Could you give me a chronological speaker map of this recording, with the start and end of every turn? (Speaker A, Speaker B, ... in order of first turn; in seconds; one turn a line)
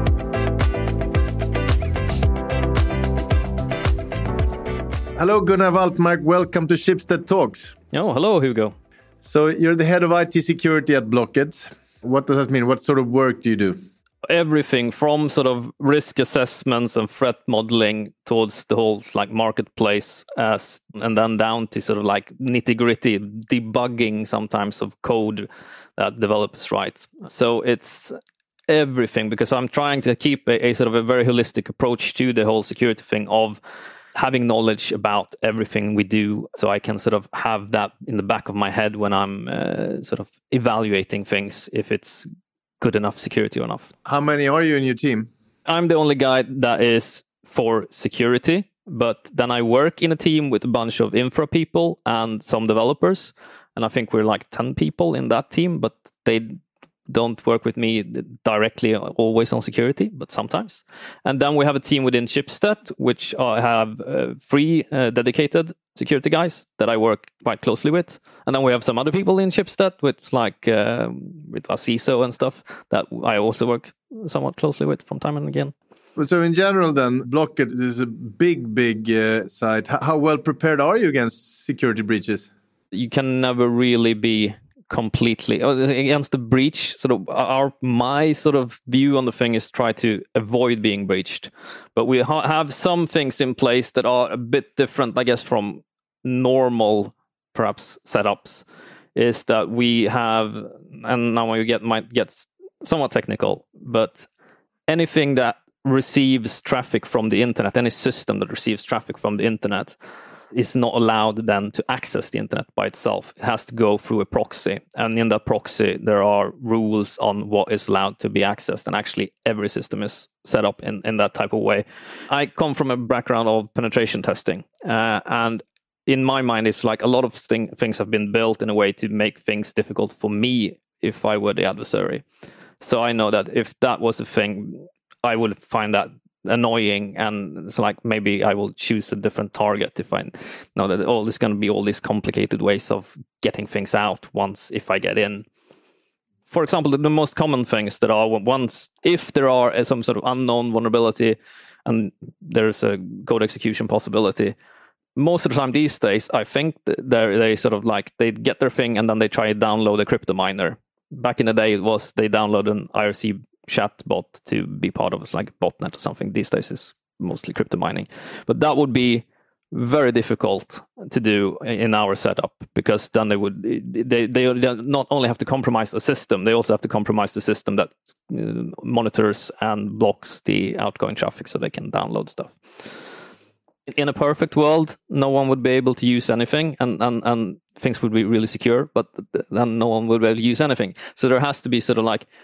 Speaker A: 5.2-7.7
Speaker B: 7.9-8.7
Speaker A: 9.2-13.8
Speaker B: 14.3-28.1
Speaker B: 28.7-33.6
Speaker B: 34.1-42.2
Speaker B: 42.8-43.9
Speaker A: 44.0-45.3
Speaker B: 45.6-56.6
Speaker B: 57.1-75.7
Speaker A: 76.2-82.5
Speaker B: 82.9-104.3
Speaker B: 104.9-110.0
Speaker B: 110.5-132.2
Speaker B: 132.8-145.4
Speaker B: 146.5-154.6
Speaker B: 155.2-182.9
Speaker B: 183.9-192.3